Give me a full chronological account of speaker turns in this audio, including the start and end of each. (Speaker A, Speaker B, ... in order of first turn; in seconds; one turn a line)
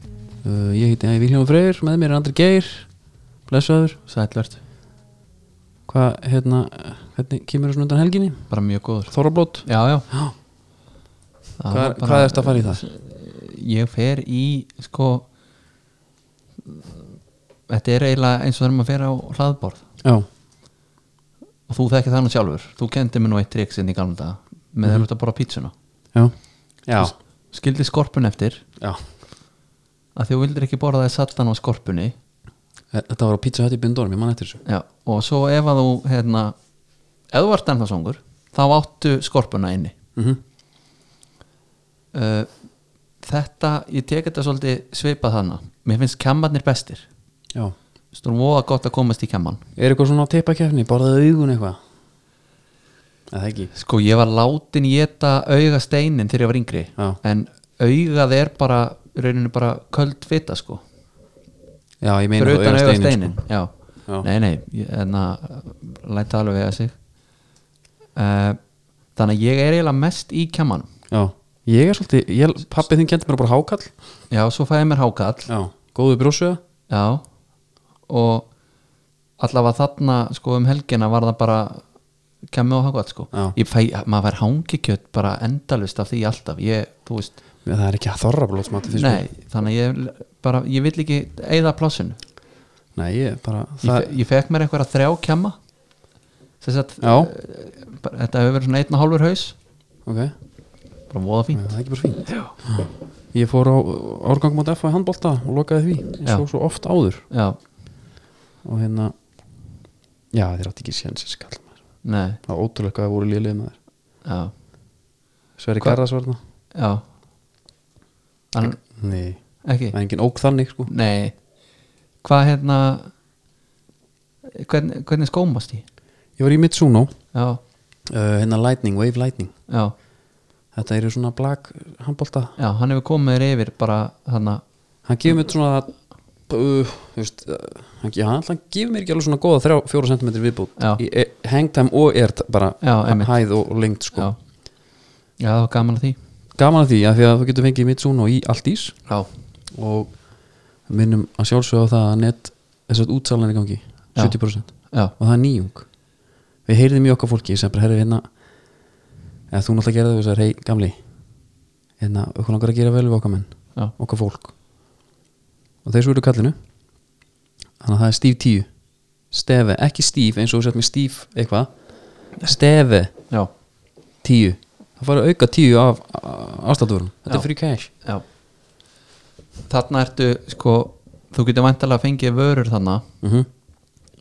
Speaker A: 0.4-2.9
Speaker A: 3.5-4.0
Speaker B: 4.1-4.6
Speaker A: 5.9-8.5
Speaker B: 8.5-10.1
Speaker A: 9.1-10.3
Speaker B: 11.6-15.3
Speaker A: 11.7-12.8
Speaker B: 17.7-19.8
Speaker B: 21.7-25.7
Speaker A: 26.1-27.1
Speaker B: 27.0-28.6
Speaker B: 30.1-32.1
Speaker A: 32.9-34.6
Speaker B: 34.7-36.5
Speaker B: 37.3-39.9
Speaker B: 42.1-42.5
Speaker B: 43.2-47.0
Speaker B: 48.1-49.6
Speaker A: 49.8-51.8
Speaker A: 53.3-53.7
Speaker B: 53.7-60.8
Speaker A: 62.0-63.4
Speaker B: 62.4-66.9
Speaker B: 68.2-68.6
Speaker B: 69.1-70.9
Speaker A: 71.1-73.9
Speaker B: 74.3-75.5
Speaker A: 75.5-76.6
Speaker B: 76.9-77.2
Speaker B: 78.1-78.5
Speaker B: 79.4-81.8
Speaker B: 82.5-87.4
Speaker A: 87.7-89.3
Speaker B: 88.9-92.2
Speaker A: 93.0-94.1
Speaker B: 93.8-95.6
Speaker B: 96.6-99.6
Speaker A: 97.0-97.3
Speaker A: 100.0-100.3
Speaker B: 101.1-101.7
Speaker A: 101.5-107.2
Speaker B: 102.3-102.5
Speaker B: 107.3-107.6
Speaker A: 108.6-109.1
Speaker A: 110.3-111.7
Speaker B: 112.0-112.4
Speaker A: 112.4-113.8
Speaker B: 114.2-114.5
Speaker A: 115.6-116.4
Speaker B: 116.8-117.0
Speaker B: 118.5-118.8
Speaker A: 118.6-119.4
Speaker B: 119.6-120.0
Speaker A: 119.9-120.9
Speaker B: 120.9-121.3
Speaker B: 122.2-123.1
Speaker B: 124.5-125.8
Speaker A: 126.4-127.1
Speaker B: 127.3-127.6
Speaker A: 128.1-129.5
Speaker B: 129.7-129.9
Speaker A: 130.7-132.6
Speaker B: 132.6-134.6
Speaker A: 135.1-135.9
Speaker A: 136.5-144.3
Speaker B: 142.8-143.3
Speaker B: 145.4-146.2
Speaker A: 146.6-149.0
Speaker A: 149.7-150.2
Speaker A: 150.9-155.9
Speaker A: 156.7-158.3
Speaker A: 159.5-161.0
Speaker A: 162.0-164.5
Speaker A: 165.8-166.6
Speaker A: 167.8-168.7
Speaker A: 169.3-171.7
Speaker A: 172.4-173.1
Speaker A: 174.2-177.9
Speaker B: 179.7-183.1
Speaker A: 183.2-183.5